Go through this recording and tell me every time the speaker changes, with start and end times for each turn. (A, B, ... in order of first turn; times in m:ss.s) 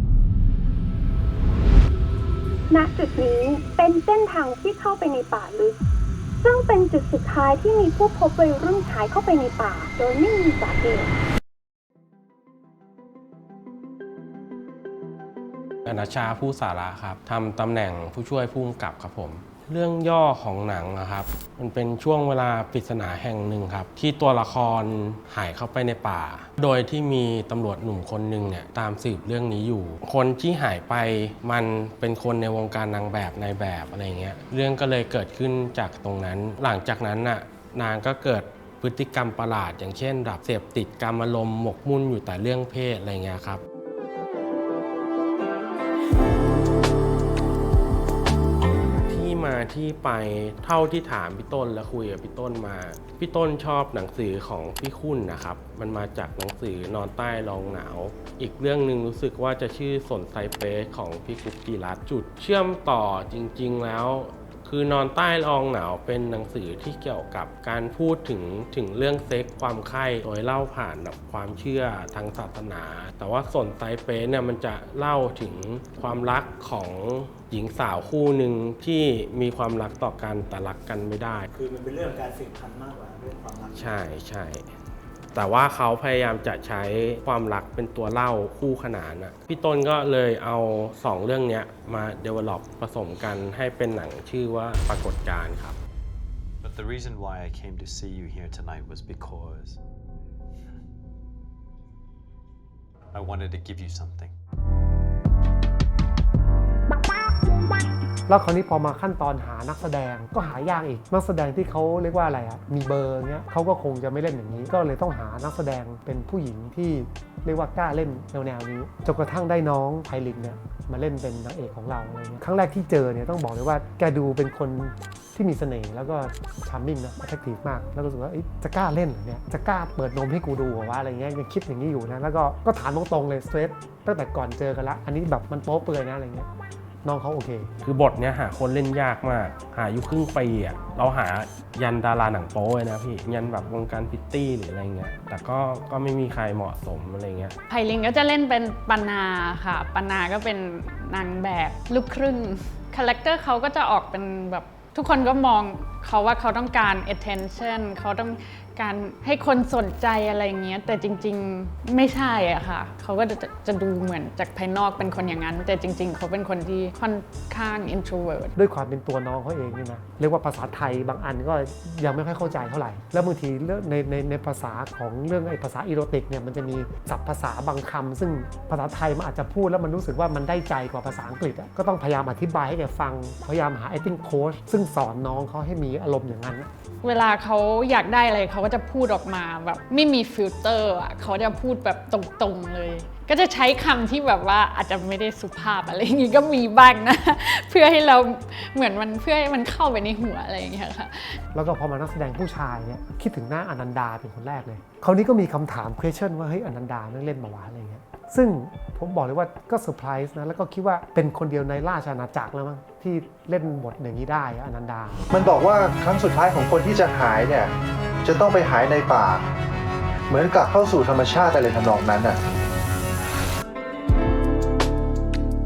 0:02.7-0:05.8 A
0:06.4-0:11.1 A
0:15.9-0:43.6 B
0:49.0-1:21.5 B
1:21.5-1:24.0 C
1:23.7-1:24.7 B
1:25.4-1:35.8 B
1:36.6-1:39.8 D
1:43.1-1:44.3 D
1:48.3-2:16.5 E
2:17.0-2:17.7 E
2:17.8-2:27.6 B
2:27.7-2:48.5 F
2:48.6-3:06.7 E
3:07.0-3:21.4 F
3:21.5-3:35.3 E
3:35.3-3:37.7 G
3:38.2-3:39.4 G
3:40.3-3:42.4 G